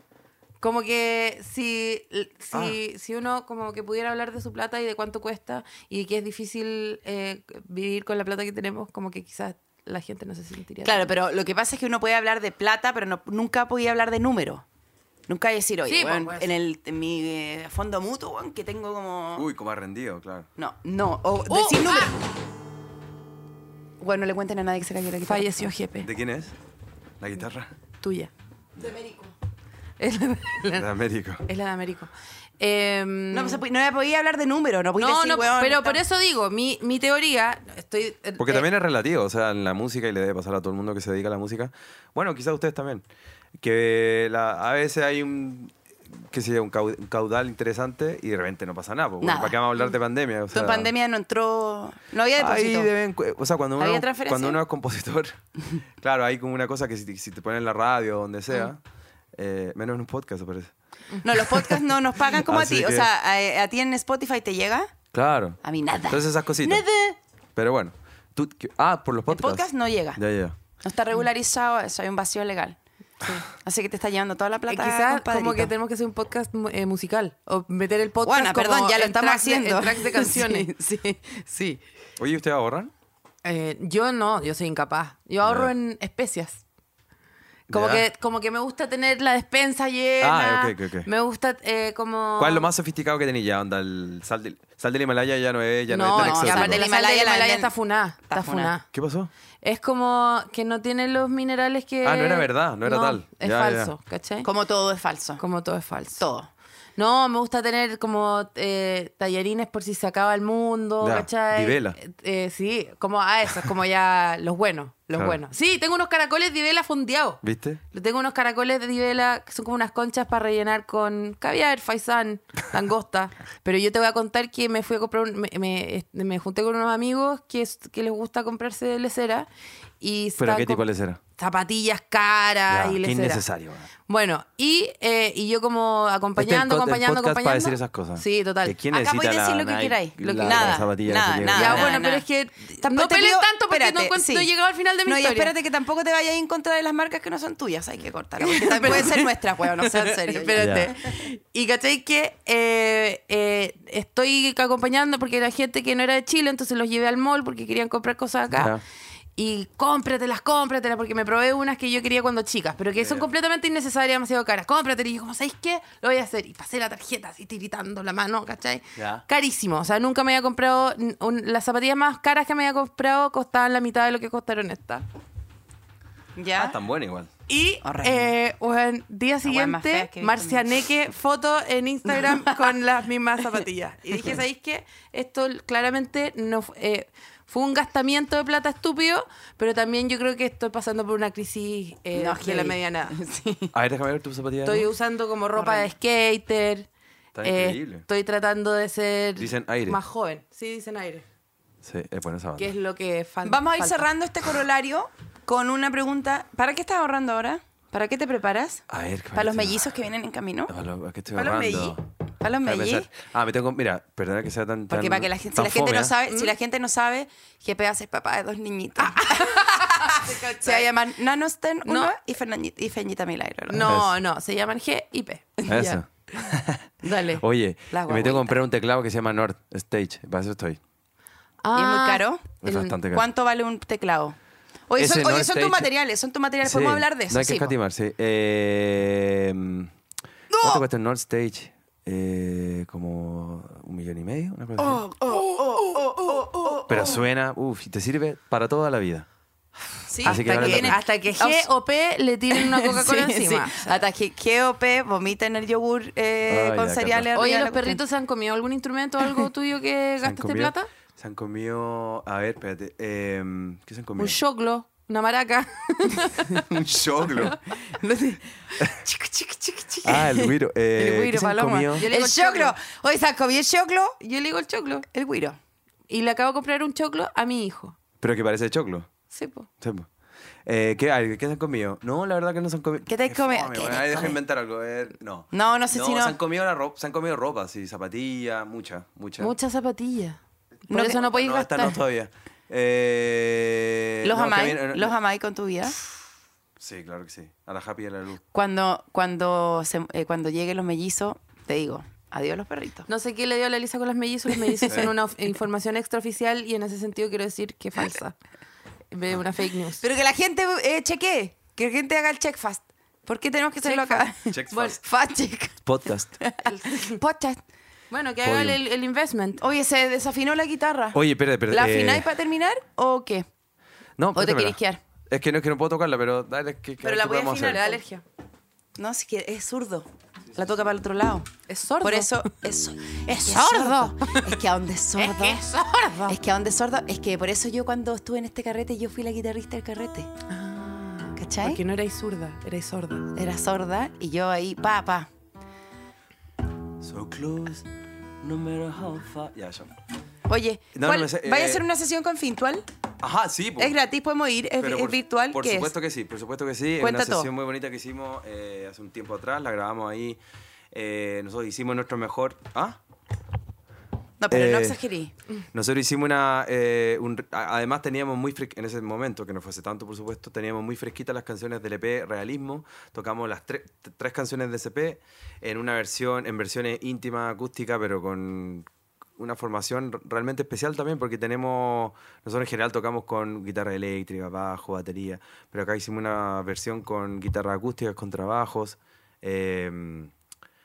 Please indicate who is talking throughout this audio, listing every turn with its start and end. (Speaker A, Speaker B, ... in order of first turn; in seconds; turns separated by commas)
Speaker A: 0.6-11.1, Speaker B: 10.8-14.7, Speaker B: 15.3-19.5, Speaker A: 15.9-16.5, Speaker C: 19.4-20.5, Speaker B: 20.6-22.2, Speaker A: 21.5-22.2, Speaker B: 24.0-25.5, Speaker A: 25.2-26.1, Speaker C: 26.0-26.5, Speaker C: 27.2-27.7, Speaker A: 28.0-28.3, Speaker B: 28.8-29.3, Speaker A: 30.0-30.9, Speaker C: 30.7-31.4, Speaker A: 31.5-33.6, Speaker B: 33.3-36.0, Speaker A: 35.0-38.7, Speaker C: 38.4-43.0, Speaker C: 43.6-50.9, Speaker B: 49.2-49.6, Speaker B: 50.5-52.9, Speaker C: 52.4-55.4, Speaker B: 53.8-54.6, Speaker C: 56.0-58.8, Speaker C: 59.3-60.7, Speaker B: 61.2-65.0, Speaker C: 62.3-63.1, Speaker C: 65.1-66.9, Speaker B: 65.6-67.2, Speaker C: 67.5-70.6, Speaker B: 69.3-70.2, Speaker B: 70.8-72.8, Speaker B: 73.5-75.7, Speaker A: 74.7-80.7, Speaker B: 78.2-81.8, Speaker C: 82.2-82.9, Speaker A: 83.4-86.6, Speaker C: 85.4-85.7, Speaker C: 87.7-88.1, Speaker A: 87.7-92.7, Speaker C: 90.2-91.1, Speaker C: 92.4-96.9, Speaker A: 95.9-98.9, Speaker B: 96.1-97.7, Speaker B: 98.2-98.7, Speaker C: 98.9-99.3, Speaker A: 99.6-104.5, Speaker C: 102.0-103.9, Speaker B: 104.4-105.4, Speaker A: 105.4-106.2, Speaker B: 106.2-106.5, Speaker A: 107.0-117.4, Speaker C: 111.0-112.0, Speaker C: 115.1-115.4, Speaker C: 117.4-117.8, Speaker A: 117.9-129.5, Speaker A: 130.0-130.9, Speaker C: 130.4-131.2, Speaker A: 131.4-133.4, Speaker C: 132.7-133.9, Speaker A: 134.1-138.8, Speaker C: 136.4-142.1, Speaker B: 138.9-142.2, Speaker A: 140.2-140.9, Speaker A: 141.5-145.5, Speaker B: 142.8-144.5, Speaker B: 145.1-150.9, Speaker A: 148.4-158.8, Speaker C: 150.6-150.9, Speaker C: 158.5-158.8, Speaker A: 159.4-175.1, Speaker C: 163.0-163.3, Speaker C: 169.0-169.2, Speaker B: 176.4-176.8, Speaker C: 176.6-177.3, Speaker A: 177.5-193.1, Speaker B: 177.8-178.3, Speaker B: 179.4-180.7, Speaker B: 182.3-182.7, Speaker B: 192.1-193.7, Speaker C: 193.7-194.9, Speaker A: 194.6-196.9, Speaker B: 195.6-195.9, Speaker C: 197.3-198.1, Speaker A: 197.4-201.2, Speaker C: 199.4-200.0, Speaker C: 201.8-202.7, Speaker A: 202.6-204.1, Speaker B: 203.4-210.7, Speaker C: 208.9-209.9, Speaker C: 210.7-212.0, Speaker B: 211.3-213.1, Speaker C: 212.6-216.2, Speaker B: 214.9-223.9, Speaker A: 219.0-220.9, Speaker A: 221.8-222.2, Speaker A: 223.7-226.0, Speaker C: 223.8-224.1, Speaker C: 225.7-226.9, Speaker B: 227.0-228.6, Speaker A: 227.1-227.4, Speaker C: 227.4-230.8, Speaker A: 231.6-233.0, Speaker B: 231.7-234.4, Speaker C: 232.6-233.3, Speaker B: 234.9-237.8, Speaker C: 235.0-235.9, Speaker C: 236.6-239.9, Speaker B: 240.5-240.9, Speaker C: 240.5-245.1, Speaker B: 244.8-247.2, Speaker C: 246.9-249.3, Speaker B: 250.1-251.7, Speaker C: 250.2-251.0, Speaker A: 250.2-254.0, Speaker B: 252.5-258.0, Speaker C: 256.5-257.3, Speaker A: 257.4-260.9, Speaker C: 260.2-264.4, Speaker A: 264.2-266.7, Speaker C: 266.5-267.6, Speaker B: 267.8-274.2, Speaker C: 270.0-272.1, Speaker A: 272.0-272.8, Speaker A: 274.2-275.1, Speaker B: 275.1-275.6, Speaker A: 276.1-278.0, Speaker C: 278.2-279.1, Speaker A: 279.3-279.7, Speaker C: 279.8-280.1, Speaker C: 280.6-289.5, Speaker B: 283.1-284.4, Speaker B: 285.5-286.4, Speaker A: 289.4-292.0, Speaker B: 290.9-291.2, Speaker C: 291.1-295.1, Speaker B: 294.2-296.0, Speaker C: 296.8-298.4, Speaker B: 298.4-303.1, Speaker A: 303.1-308.4, Speaker C: 304.9-305.1, Speaker A: 309.1-310.0, Speaker B: 310.0-317.6, Speaker A: 313.8-315.0, Speaker C: 314.5-315.0, Speaker C: 315.8-316.3, Speaker A: 316.6-317.2, Speaker A: 318.1-319.6, Speaker C: 318.4-318.8, Speaker B: 319.6-323.5, Speaker C: 321.1-322.3, Speaker C: 324.2-327.9, Speaker B: 324.4-325.0, Speaker B: 327.0-328.0, Speaker A: 327.6-328.2, Speaker B: 329.0-331.5, Speaker A: 331.7-332.5, Speaker B: 332.0-335.6, Speaker A: 333.3-334.5, Speaker A: 335.2-336.4, Speaker B: 336.3-340.3, Speaker A: 340.5-343.3, Speaker B: 341.4-341.8, Speaker B: 343.4-345.3, Speaker C: 347.0-347.9, Speaker C: 348.4-349.9, Speaker B: 350.5-352.9, Speaker C: 350.9-351.9, Speaker C: 353.2-353.9, Speaker B: 353.8-355.9, Speaker C: 354.8-360.4, Speaker B: 357.0-357.5, Speaker C: 360.9-363.0, Speaker B: 364.4-365.3, Speaker C: 364.5-365.0, Speaker C: 365.7-390.3